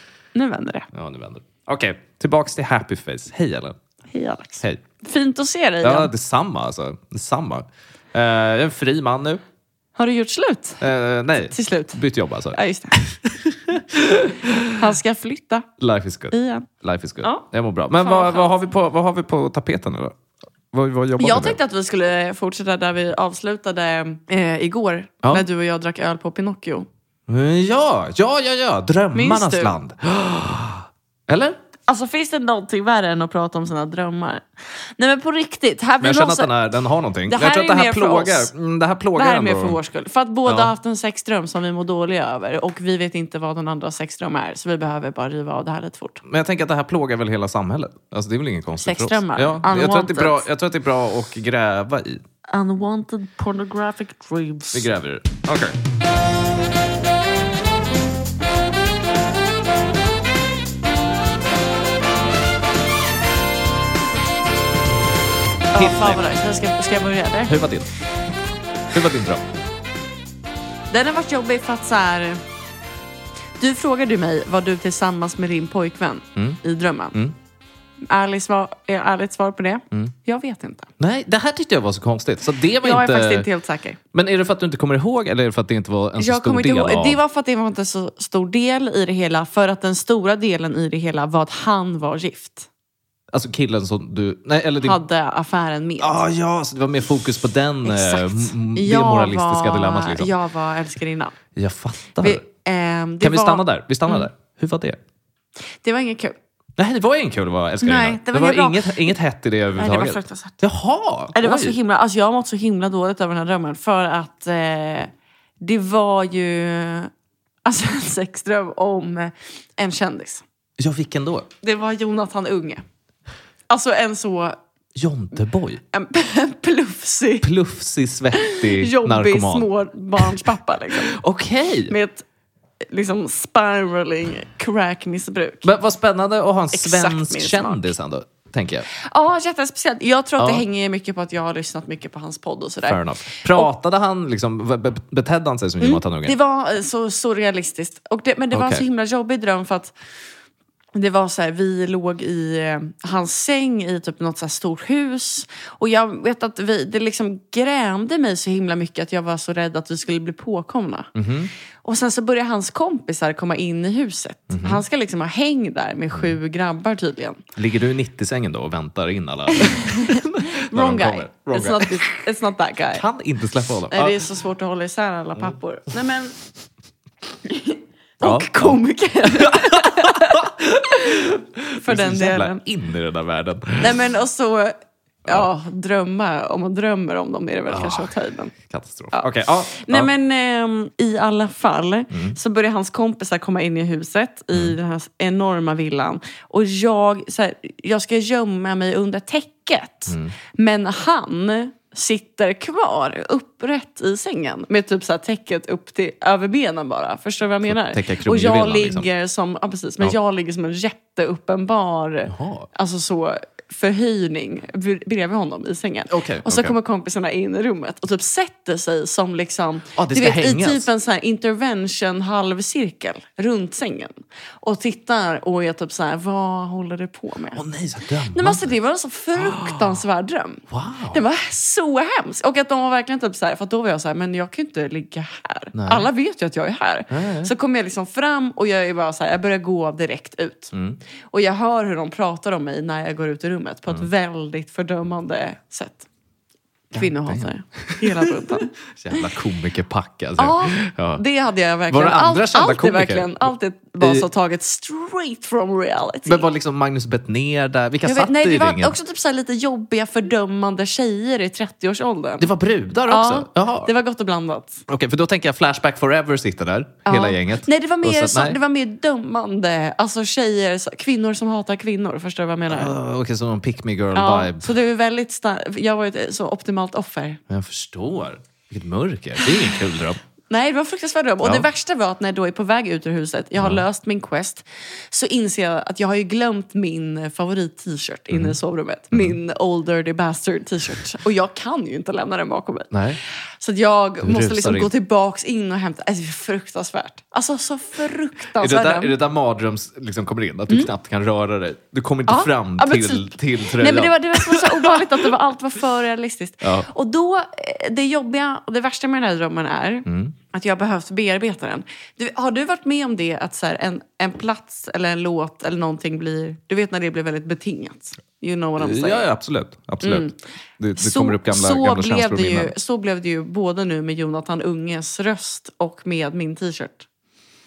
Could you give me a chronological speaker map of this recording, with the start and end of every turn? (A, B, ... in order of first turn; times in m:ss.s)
0:00.3-0:00.9 A
0:00.9-0:03.8 B
0:04.1-0:06.1 A
0:05.8-0:09.4 B
0:10.0-0:10.8 A
0:10.8-0:14.8 B
0:11.4-0:12.0 A
0:12.5-0:13.0 A
0:14.7-0:15.7 A
0:15.8-0:20.2 B
0:16.3-0:16.7 A
0:18.0-0:18.6 A
0:20.7-0:21.6 B
0:21.2-0:26.9 A
0:27.3-0:31.6 B
0:29.1-0:29.8 A
0:31.9-0:34.4 A
0:35.0-0:36.5 A
0:36.0-0:39.8 B
0:37.3-0:38.5 A
0:39.2-0:46.2 A
0:40.4-0:40.7 B
0:46.2-0:52.2 B
0:48.8-0:50.4 A
0:52.5-0:54.9 A
0:54.7-0:55.8 B
1:05.7-1:07.6 A
1:05.7-1:06.2 B
1:07.5-1:07.9 B
1:08.9-1:09.4 B
1:10.9-1:12.4 A
1:13.6-1:17.2 A
1:18.0-1:20.9 A
1:21.0-1:23.5 B
1:22.8-1:24.0 A
1:24.1-1:27.2 B
1:26.2-1:32.7 A
1:33.3-1:35.0 B
1:34.8-1:36.2 A
1:36.0-1:40.3 B
1:37.8-1:41.4 A
1:41.5-1:42.4 B
1:42.2-1:44.3 A
1:43.2-1:45.0 B
1:45.8-1:46.4 A
1:46.8-1:51.8 B
1:47.8-1:49.2 A
1:49.8-1:50.6 A
1:51.3-1:57.1 A
1:57.6-2:00.4 A
2:00.8-2:01.5 B
2:01.6-2:02.8 A
2:03.7-2:04.6 A
2:05.0-2:05.8 B
2:05.9-2:07.5 A
2:07.4-2:09.7 B
2:08.3-2:11.2 A
2:11.0-2:11.9 B
2:11.9-2:12.2 A
2:12.9-2:15.7 A
2:15.6-2:18.9 B
2:16.7-2:17.9 A
2:18.9-2:23.7 A
2:20.4-2:20.6 B
2:22.8-2:26.4 B
2:25.8-2:29.9 A
2:28.5-2:28.8 B
2:30.9-2:41.1 A
2:41.1-2:41.5 B
2:41.8-2:47.4 A
2:44.5-2:44.8 B
2:47.6-2:52.1 B
2:49.5-2:53.0 A
2:52.9-2:54.2 B
2:53.9-2:56.3 A
2:57.4-3:01.3 A
2:58.2-3:04.0 B
3:01.8-3:02.6 A
3:03.8-3:08.5 A
3:07.7-3:08.1 B
3:08.7-3:10.1 B
3:09.1-3:47.6 A
3:12.1-3:12.4 B
3:20.1-3:20.3 B
3:27.6-3:29.1 B
3:32.3-3:32.7 B
3:36.1-3:36.7 B
3:40.0-3:40.9 B
3:47.5-3:48.7 B
3:48.3-4:00.7 A
3:49.4-3:50.0 B
3:50.7-3:51.2 B
3:55.7-3:56.1 B
3:57.1-3:57.5 B
4:00.7-4:01.0 B
4:01.3-4:06.0 A
4:06.9-4:09.2 A
4:06.9-4:11.2 B
4:10.4-4:16.4 A
4:11.9-4:14.3 B
4:16.2-4:19.0 B
4:18.0-4:22.5 A
4:22.4-4:23.9 B
4:23.1-4:24.8 A
4:24.9-4:28.6 B
4:27.0-4:32.9 A
4:32.7-4:34.7 B
4:34.1-4:37.4 A
4:37.5-4:40.2 B
4:40.5-4:52.9 A
4:43.6-4:43.8 B
4:48.3-4:48.6 B
4:52.9-4:53.2 B
4:53.6-4:59.1 A
4:54.2-4:54.9 B
4:58.6-5:05.3 B
5:02.3-5:19.3 A
5:06.6-5:06.9 B
5:10.0-5:10.3 B
5:18.8-5:20.3 B
5:20.0-5:20.3 A
5:20.8-5:22.7 B
5:21.0-5:27.0 A